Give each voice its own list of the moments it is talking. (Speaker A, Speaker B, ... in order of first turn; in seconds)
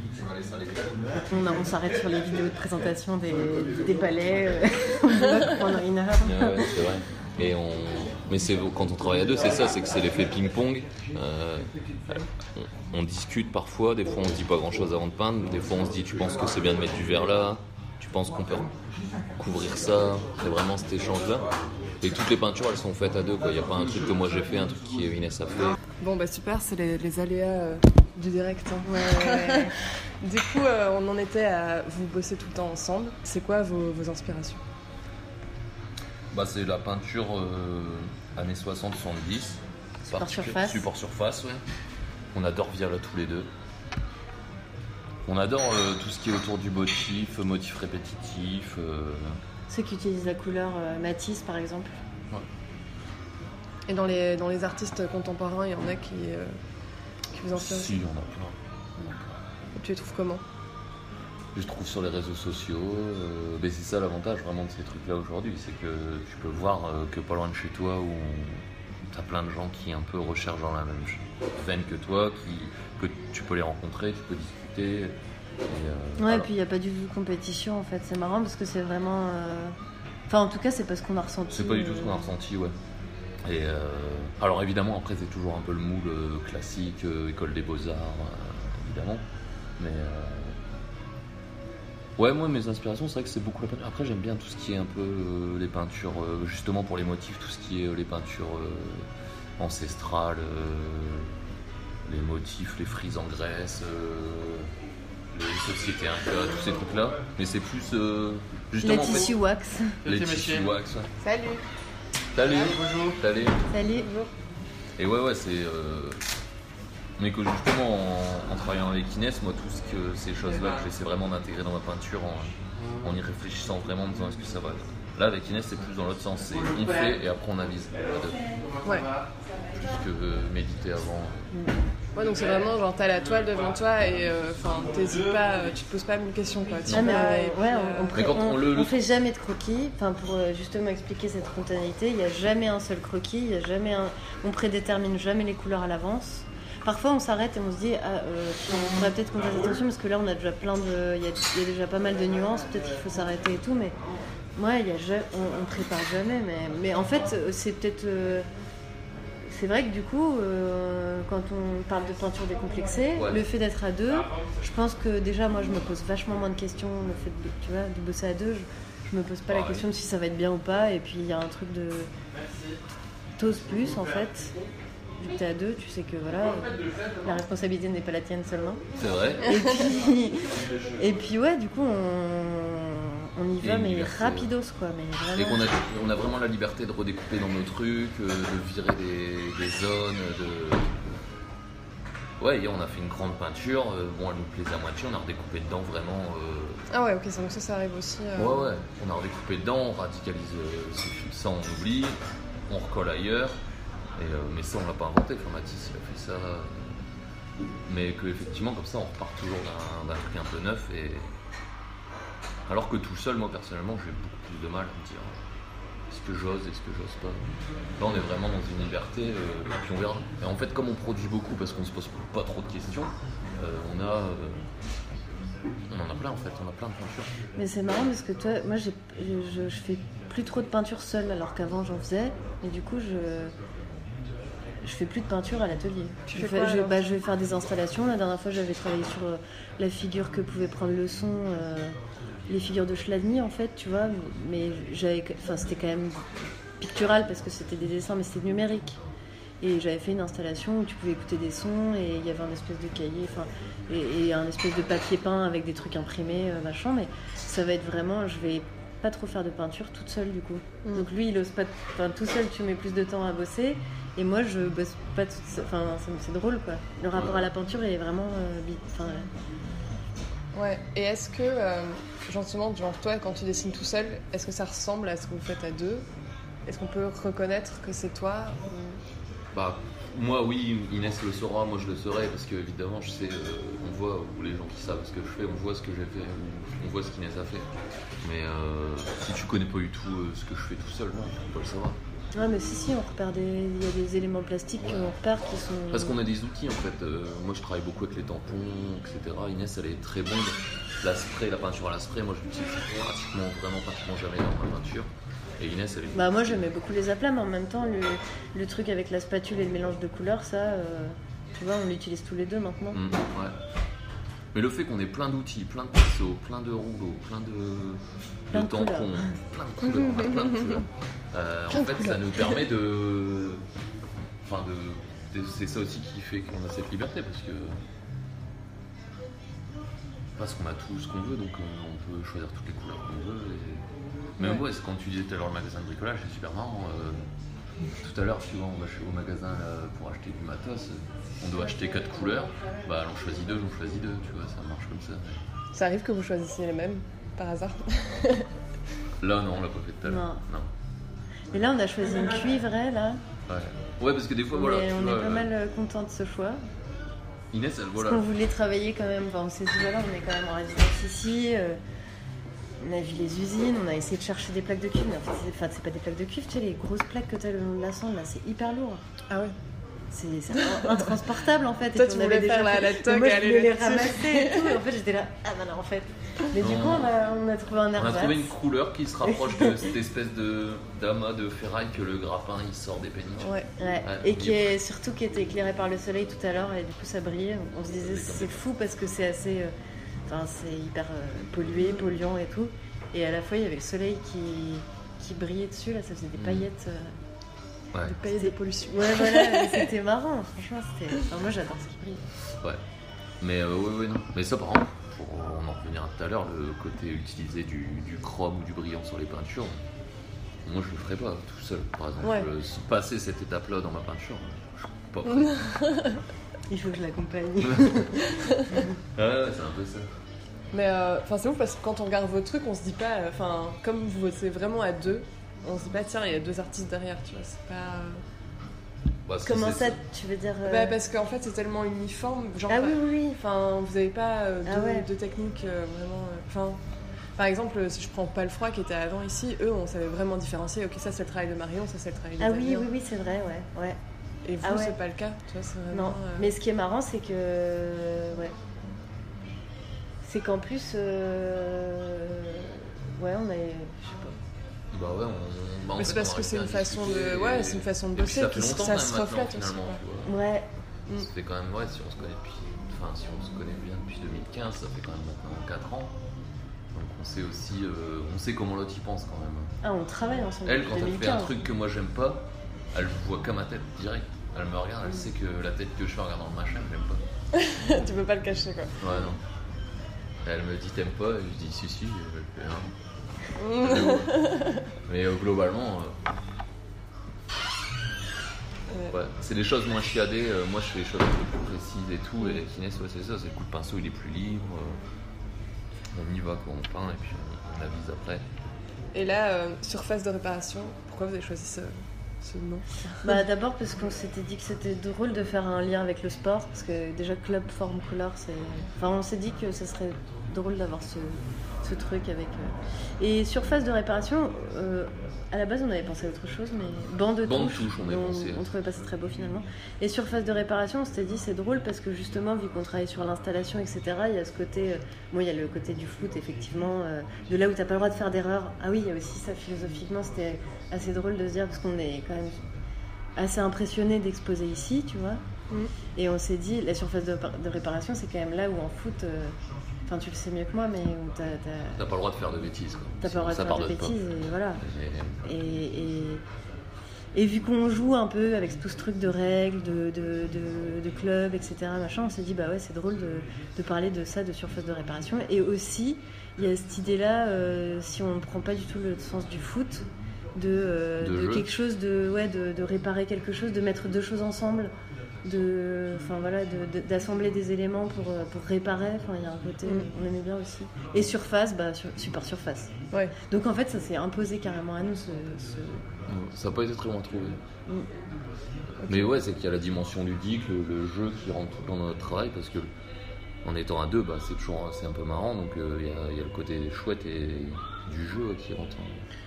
Speaker A: 1.3-6.7, 28.8-29.8, 40.1-40.9, 49.7-52.0, 76.2-79.8, 80.3-82.3, 108.8-110.0, 113.7-114.1, 136.9-154.0, 154.6-158.5, 159.5-172.1, 173.4-174.5, 175.2-178.8, 179.4-185.6, 227.6-233.5, 234.8-242.0, 242.5-246.2, 246.8-249.0, 249.6-269.3, 292.4-296.2, 306.1-313.0, 318.5-319.4, 350.1-350.4, 351.5-353.2, 354.5-356.6, 358.0-361.8, 362.8-369.0, 370.1-378.5, 379.2-379.9, 383.8-389.7, 390.3-397.1, 398.2-402.2, 416.7-418.9, 429.4-431.0, 432.7-433.4, 434.7-435.1, 442.4-444.0, 444.6-445.0, 445.9-448.6, 450.2-454.4, 460.2-460.7, 469.8-471.6, 503.2-532.6, 533.4-535.4, 536.2-539.6, 540.1-542.0, 543.2-544.8, 545.4-546.4, 547.3-564.9, 565.5-576.0
Speaker B: 6.2-18.7, 19.4-21.5, 22.0-25.8, 36.3-41.6, 42.3-43.5, 45.3-49.4, 57.5-59.2, 61.5-75.2, 75.7-76.5, 81.5-82.8, 83.4-89.2, 89.8-90.6, 92.2-99.1, 99.6-101.3, 102.1-104.7, 105.3-109.3, 110.0-111.1, 112.3-113.7, 115.0-116.2, 117.2-128.4, 129.8-131.5, 136.8-137.2, 138.1-139.0, 163.2-163.4, 169.5-169.9, 179.0-179.6, 183.6-184.5, 185.4-190.9, 192.4-196.8, 198.4-202.2, 202.7-203.6, 204.2-207.0, 207.9-211.4, 212.7-215.4, 216.1-224.6, 225.9-227.3, 267.1-267.5, 279.5-287.7, 288.2-292.0, 294.8-295.1, 295.9-306.6, 312.9-313.6, 314.5-323.6, 324.4-327.8, 330.4-333.9, 334.4-337.3, 337.9-345.4, 349.2-350.7, 353.5-355.5, 357.5-358.3, 376.6-377.1, 377.9-384.7, 388.0-388.6, 396.4-396.7, 403.4-409.8, 410.6-415.7, 417.6-418.0, 419.1-420.1, 429.3-430.0, 454.9-460.3, 461.1-466.1, 466.9-469.7, 470.6-477.2, 479.0-479.4, 480.4-482.9, 483.8-484.5, 485.1-486.2, 489.1-495.0, 496.1-498.5, 517.4-518.7, 542.0-544.2, 544.8-545.4, 561.2-561.7, 576.3-577.6, 579.1-582.9, 583.6-589.2
Speaker C: 26.0-34.6, 53.9-56.6, 57.3-58.0, 59.8-60.4, 111.2-111.6, 132.2-138.2, 196.9-198.7, 236.3-237.0, 270.6-276.1, 276.7-278.8, 319.9-320.6, 321.7-322.6, 345.7-348.5, 369.3-369.6, 370.7-371.1, 371.9-374.8, 383.4-383.7, 398.1-399.9, 412.2-412.5, 415.3-416.2, 418.4-418.7, 420.7-428.2, 430.7-436.8, 437.4-442.9, 444.4-446.5, 456.0-460.0, 477.5-478.9, 483.6-484.8, 499.1-503.4, 579.0-579.3